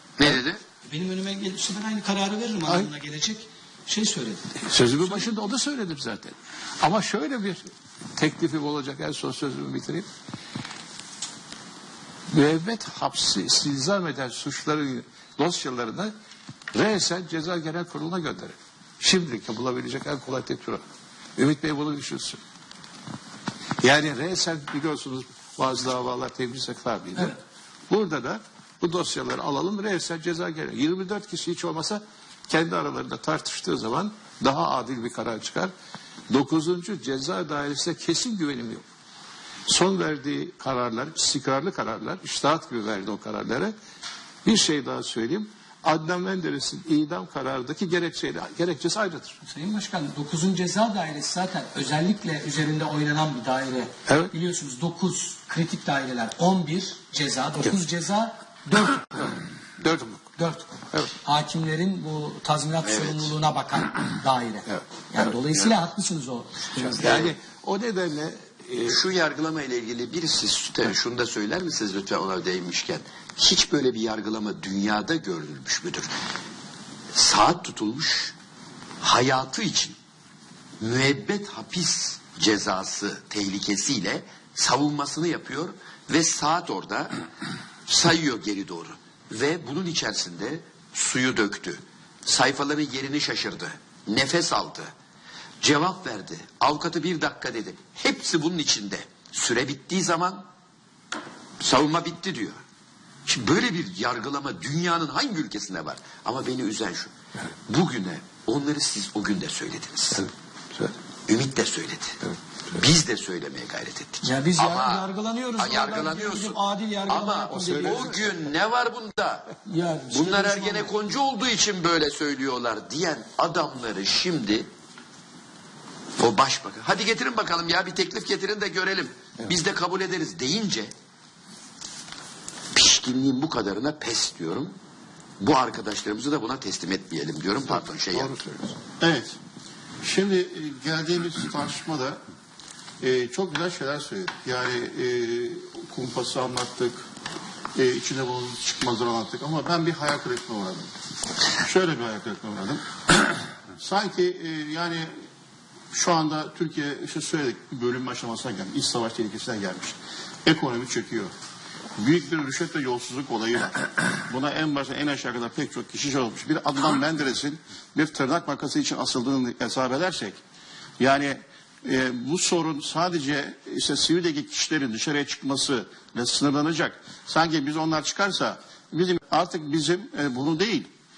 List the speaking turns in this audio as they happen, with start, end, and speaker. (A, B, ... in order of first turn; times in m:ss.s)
0:00.2-0:00.6 A
0:00.8-0:04.5 B
0:04.6-0:10.1 C
0:12.3-0:16.1 C
0:16.7-0:20.8 C
0:21.4-0:22.4 C
0:23.8-0:35.7 C
0:36.3-0:38.9 C
0:39.7-0:43.7 C
0:44.4-0:49.4 C
0:49.5-0:59.3 B
0:54.1-0:54.3 C
0:59.8-1:00.3 C
1:00.4-1:06.9 B
1:02.8-1:03.3 A
1:04.7-1:05.3 C
1:06.8-1:09.0 C
1:06.9-1:07.4 A
1:08.9-1:16.1 A
1:17.1-1:18.3 A
1:19.0-1:20.0 A
1:20.8-1:27.2 A
1:27.9-1:34.9 A
1:35.6-1:40.5 A
1:41.6-1:42.6 A
1:43.3-1:47.1 A
1:47.7-1:50.3 A
1:50.1-1:50.9 C
1:51.3-1:52.2 A
1:52.7-1:59.5 A
1:54.2-1:58.1 B
1:57.5-1:58.2 C
1:59.6-2:00.9 B
2:00.1-2:04.7 A
2:06.2-2:10.9 A
2:12.7-2:14.7 A
2:15.4-2:18.4 A
2:17.7-2:18.8 C
2:19.0-2:19.4 D
2:20.0-2:22.2 D
2:23.0-2:27.0 D
2:27.8-2:30.9 D
2:31.6-2:32.8 D
2:33.8-2:35.1 D
2:35.9-2:41.3 D
2:42.0-2:50.4 D
2:51.0-3:00.9 D